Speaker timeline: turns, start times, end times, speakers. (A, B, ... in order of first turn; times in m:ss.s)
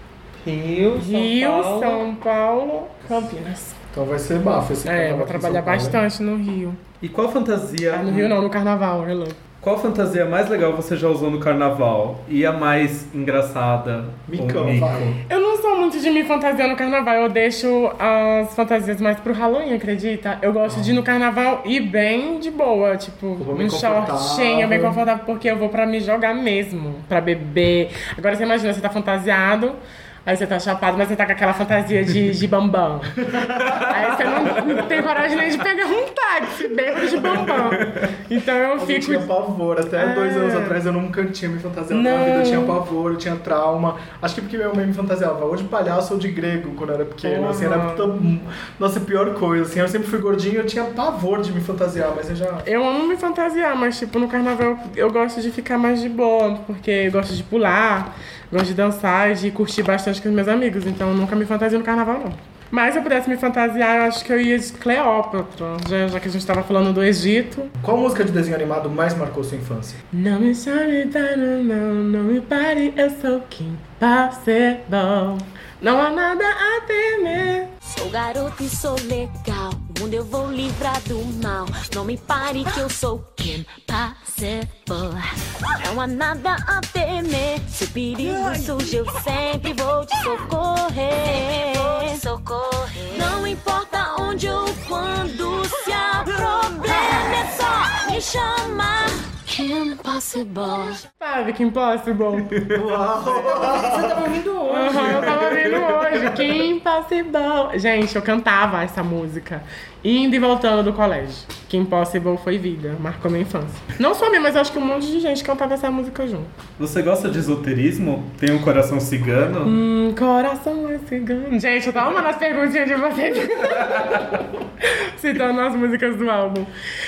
0:00.4-0:02.0 A
0:01.0-0:03.8 B
0:03.9-0:06.0 C
0:04.8-0:06.8 B
0:07.0-0:08.4 D
0:07.9-0:09.4 B
0:09.6-0:15.1 D
0:14.3-0:15.2 C
0:15.3-0:33.2 B
0:20.7-0:21.0 C
0:23.4-0:25.0 C
0:33.2-0:33.9 C
0:33.8-0:39.3 B
0:37.2-0:38.1 D
0:38.8-0:52.7 C
0:39.9-0:40.8 B
0:41.9-0:42.8 B
0:47.2-0:48.1 B
0:52.6-1:07.7 B
1:07.8-1:10.0 C
1:10.1-1:17.7 B
1:17.9-1:41.0 E
1:41.2-1:42.6 B
1:42.7-1:46.3 C
1:43.2-1:45.4 A
1:44.7-1:56.5 B
1:56.8-1:59.8 D
1:59.6-2:06.7 B